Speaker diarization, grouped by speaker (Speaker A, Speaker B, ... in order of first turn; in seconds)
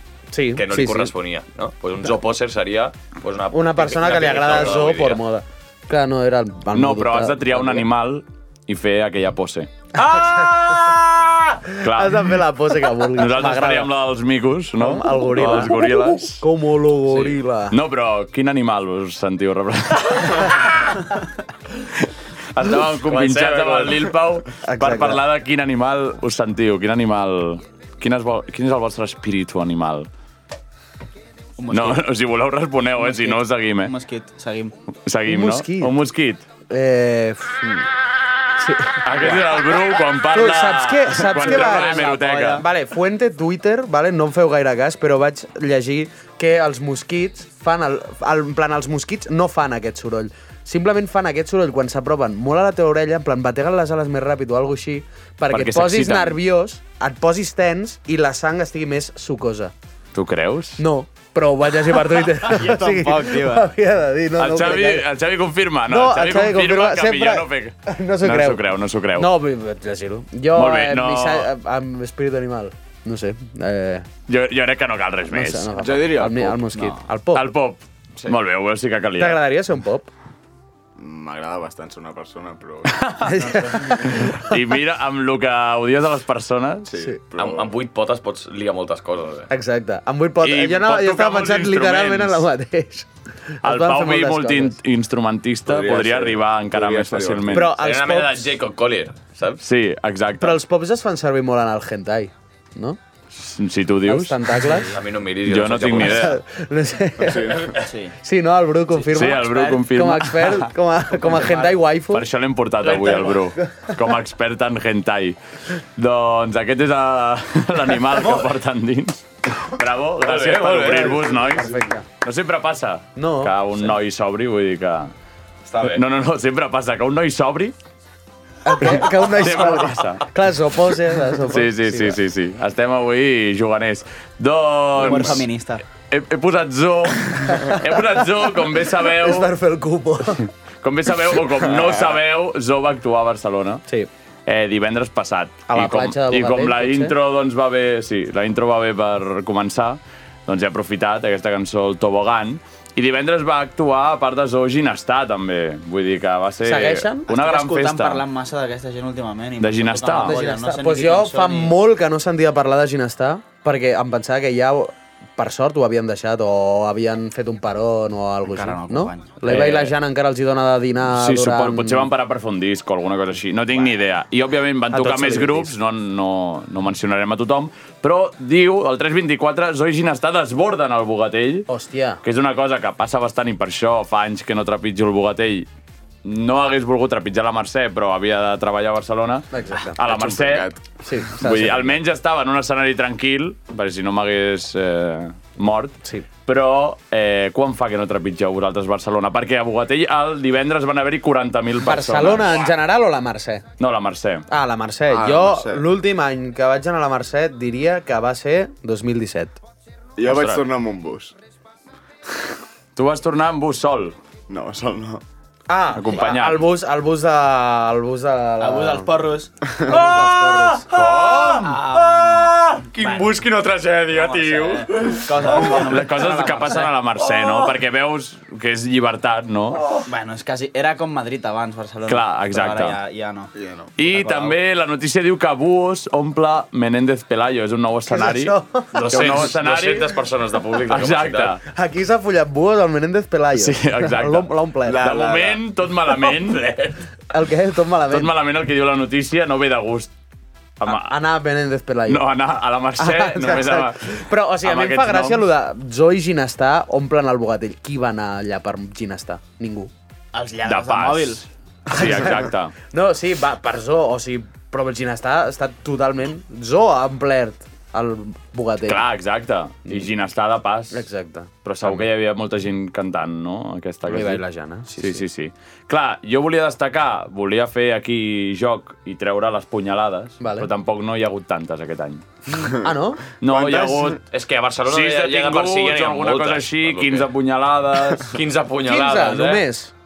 Speaker A: 0.3-1.1, 3.5-7.9, 9.9-11.0, 11.8-13.9, 14.8-17.8, 24.7-25.2, 35.2-35.9, 36.7-37.9, 38.6-42.1, 42.6-59.7, 60.8-65.0, 65.9-68.6, 69.1-74.1, 75.3-77.4, 79.2-80.1, 83.2-84.5, 89.5-93.1, 93.6-94.8, 97.5-98.5, 100.4-103.0, 104.0-104.9, 106.0-107.7, 108.2-112.2, 120.8-122.0, 123.2-123.5, 128.6-132.2, 137.5-138.0, 139.1-140.4, 145.7-147.1, 156.6-157.2, 160.2-172.1, 174.9-175.7, 181.7-182.2, 189.5-190.0, 191.0-192.0, 201.8-203.6, 204.5-209.6, 215.7-219.1, 219.8-220.9, 238.1-239.2, 241.6-245.0, 247.3-248.3, 250.8-252.3, 253.0-259.9, 261.9-269.0, 270.9-272.0, 274.1-275.2, 280.4-280.7, 282.5-283.2, 288.8-289.9
Speaker B: 0.5-5.2, 15.4-15.7, 22.9-24.1, 87.4-89.5, 97.8-99.6, 104.9-106.3, 112.8-113.4, 120.2-121.4, 125.6-126.0, 222.2-225.6, 238.9-241.6, 284.3-287.3, 288.2-289.6
Speaker C: 6.7-9.7, 10.4-10.9, 11.8-12.4, 13.2-16.4, 17.7-21.0, 22.5-30.1, 31.7-33.9, 35.0-36.4, 39.0-42.6, 55.5-56.4, 60.1-60.8, 64.4-69.3, 70.5-71.5, 74.3-75.7, 77.3-79.4, 83.0-86.9, 90.4-92.5, 93.6-97.7, 99.6-100.6, 103.3-104.6, 105.5-106.4, 109.0-110.7, 112.1-115.4, 116.0-125.1, 125.8-127.7, 128.8-130.3, 131.5-135.4, 136.1-139.5, 140.8-143.8, 144.4-158.2, 159.6-160.4, 169.4-169.9, 171.0-181.7, 182.2-185.7, 186.2-189.4, 190.0-190.7, 191.4-202.7, 203.8-204.4, 210.3-210.6, 212.9-214.1, 215.9-216.7, 220.1-221.8, 225.0-229.9, 232.1-233.0, 234.0-238.5, 239.1-240.1, 240.9-241.6, 243.5-247.0, 248.1-250.1, 250.8-251.2, 252.1-255.5, 260.6-262.7, 268.8-271.1, 271.6-274.4, 275.0-282.2, 283.4-284.2, 284.9-288.4
Speaker D: 31.6-32.0, 33.0-34.7, 41.3-42.7, 62.5-63.7, 76.7-77.0, 104.6-104.9, 107.8-108.1, 109.3-109.8, 111.2-111.8, 118.2-118.5, 135.0-135.8, 157.3-161.7, 168.4-169.6, 218.6-220.3, 221.5-223.4, 224.1-226.9, 230.1-234.6, 260.3-261.4
Speaker E: 75.7-76.7, 81.0-83.1, 86.9-87.7, 95.7-97.7, 107.2-107.7, 190.0-190.8, 205.1-205.8, 210.2-211.3, 214.5-215.2, 233.5-233.9, 244.8-245.6, 282.6-284.2